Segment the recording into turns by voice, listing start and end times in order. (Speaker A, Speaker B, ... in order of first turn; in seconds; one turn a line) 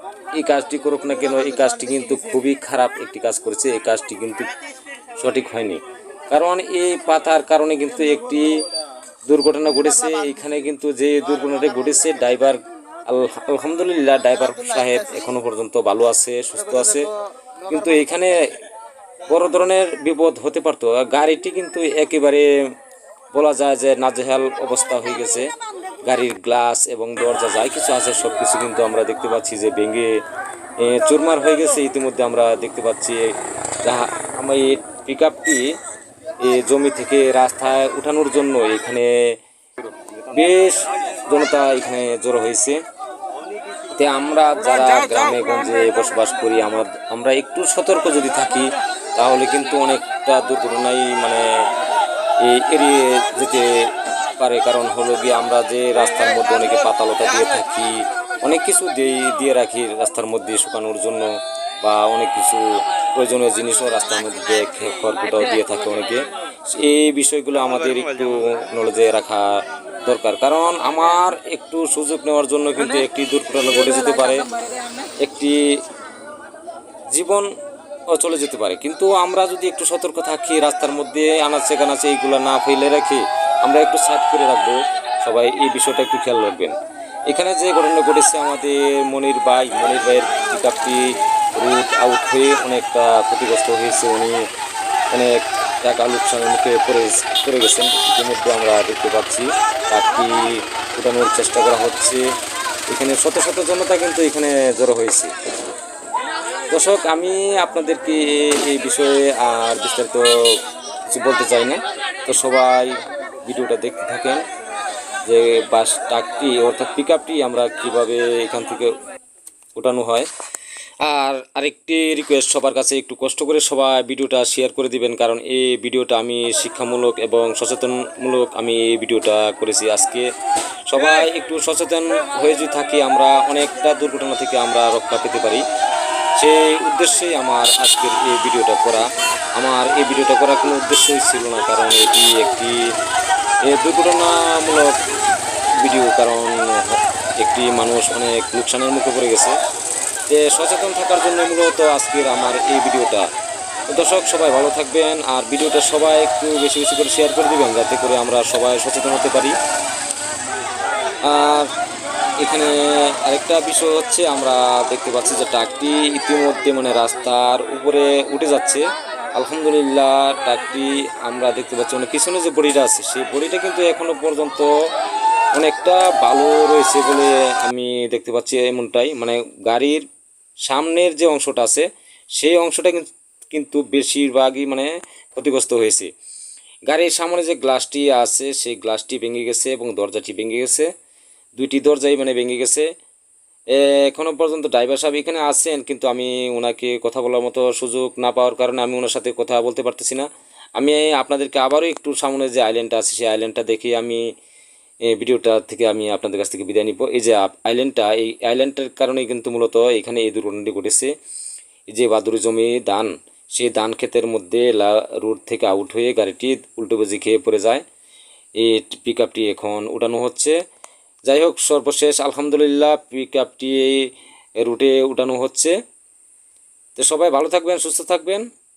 Speaker A: 0.3-4.5
Speaker A: 5.2-8.6
Speaker A: 9.3-17.1
Speaker A: 17.7-18.6
Speaker A: 19.3-22.5
Speaker A: 23.3-25.5
Speaker A: 26.1-30.2
Speaker A: 30.8-33.3
Speaker A: 33.8-35.8
Speaker A: 36.4-39.4
Speaker A: 40.3-42.8
Speaker A: 44.0-51.5
Speaker A: 52.4-53.9
Speaker A: 54.4-74.5
Speaker A: 75.2-75.7
Speaker A: 77.1-77.5
Speaker A: 78.1-86.8
Speaker A: 87.3-91.0
Speaker A: 91.6-94.4
Speaker A: 95.1-102.3
Speaker A: 102.9-105.3
Speaker A: 106.7-114.5
Speaker A: 115.2-119.0
Speaker A: 119.8-120.3
Speaker A: 121.0-130.3
Speaker A: 130.9-135.7
Speaker A: 136.4-142.8
Speaker A: 143.6-145.0
Speaker A: 145.8-149.6
Speaker A: 150.3-153.3
Speaker A: 153.9-159.6
Speaker A: 161.2-161.7
Speaker A: 162.4-174.7
Speaker A: 175.6-180.1
Speaker A: 180.7-186.1
Speaker A: 186.9-190.9
Speaker A: 191.6-192.9
Speaker A: 193.7-204.2
Speaker A: 205.1-211.1
Speaker A: 211.9-217.8
Speaker A: 218.6-220.6
Speaker A: 221.3-224.1
Speaker A: 224.6-225.8
Speaker A: 227.0-228.5